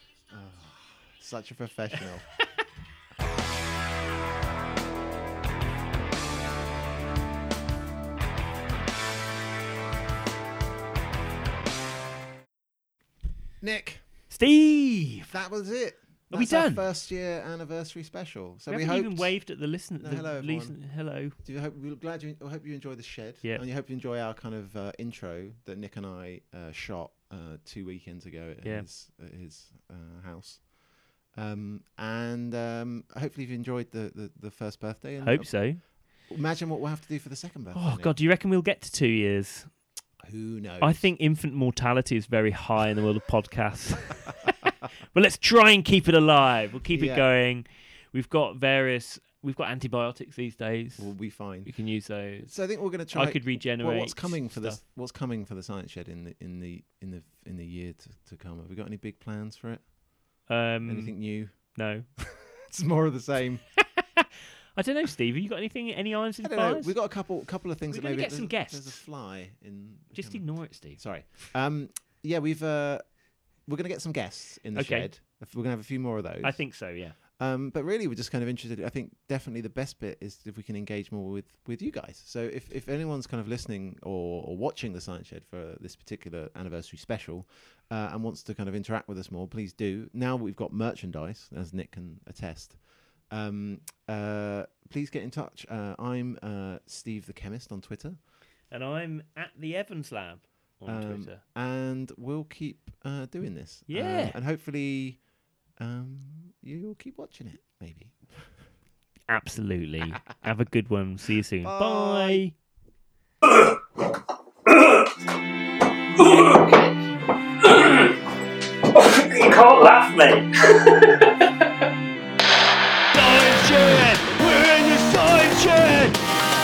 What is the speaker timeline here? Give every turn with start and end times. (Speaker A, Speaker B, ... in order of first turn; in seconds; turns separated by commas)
Speaker A: 0.3-2.3, Speaker A: 13.6-14.0, Speaker B: 14.3-15.3, Speaker A: 15.3-19.4, Speaker B: 16.3-16.9, Speaker B: 18.7-21.4, Speaker A: 20.0-20.8, Speaker A: 21.4-30.7, Speaker B: 28.6-28.9, Speaker A: 31.3-38.1, Speaker B: 35.2-35.8, Speaker B: 37.7-39.7, Speaker A: 40.2-41.1, Speaker B: 40.8-54.8, Speaker A: 46.9-47.2, Speaker A: 51.0-51.7, Speaker A: 52.4-59.9, Speaker B: 60.5-62.1, Speaker A: 60.9-63.6, Speaker B: 64.0-66.9, Speaker A: 66.4-98.2, Speaker B: 67.9-69.0, Speaker B: 70.1-71.0, Speaker B: 74.7-75.1, Speaker B: 76.4-77.2, Speaker B: 98.7-101.4, Speaker A: 100.8-105.2, Speaker B: 103.9-104.4, Speaker A: 105.8-108.6, Speaker B: 109.3-112.5, Speaker A: 111.6-112.4, Speaker C: 114.7-115.1, Speaker C: 116.2-117.0, Speaker C: 117.6-118.2, Speaker C: 118.9-121.4, Speaker D: 123.1-126.1